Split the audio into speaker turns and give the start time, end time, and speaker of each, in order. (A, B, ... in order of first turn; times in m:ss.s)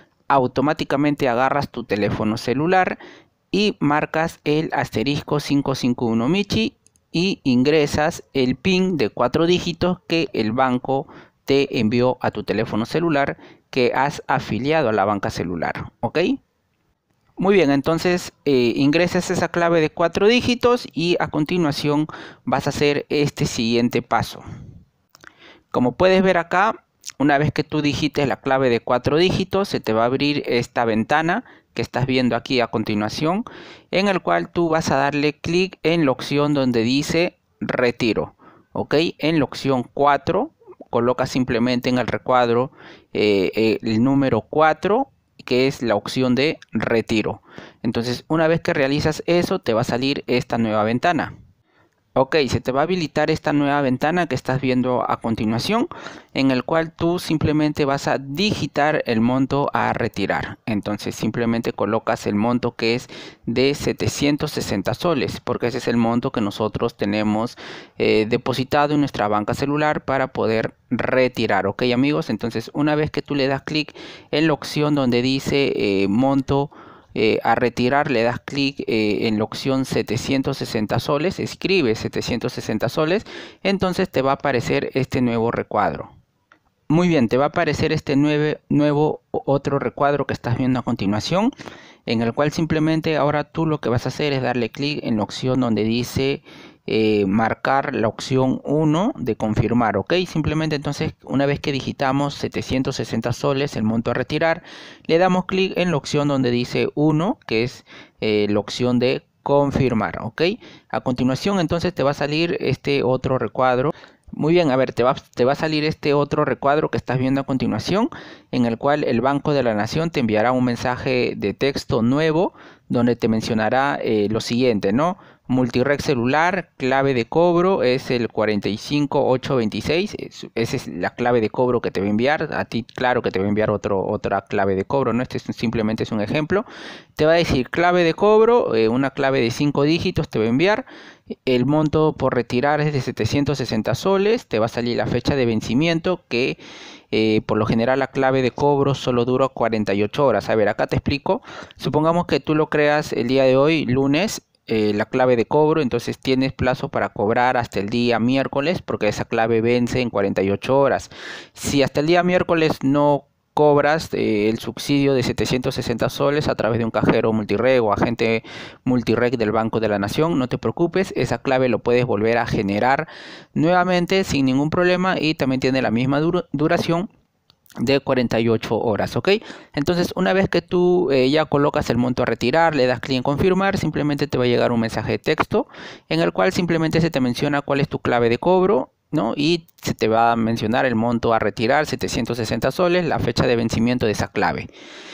0:00.3-0:03.0 A
0:03.5-0:16.4 A
0:17.4-0:24.4 A
0:25.7-0:51.4 A
0:52.2-1:26.1 A
1:26.9-1:31.5 A
1:32.1-2:20.9 A
2:21.5-2:26.6 A
2:27.1-2:57.1 A
2:57.8-3:14.7 A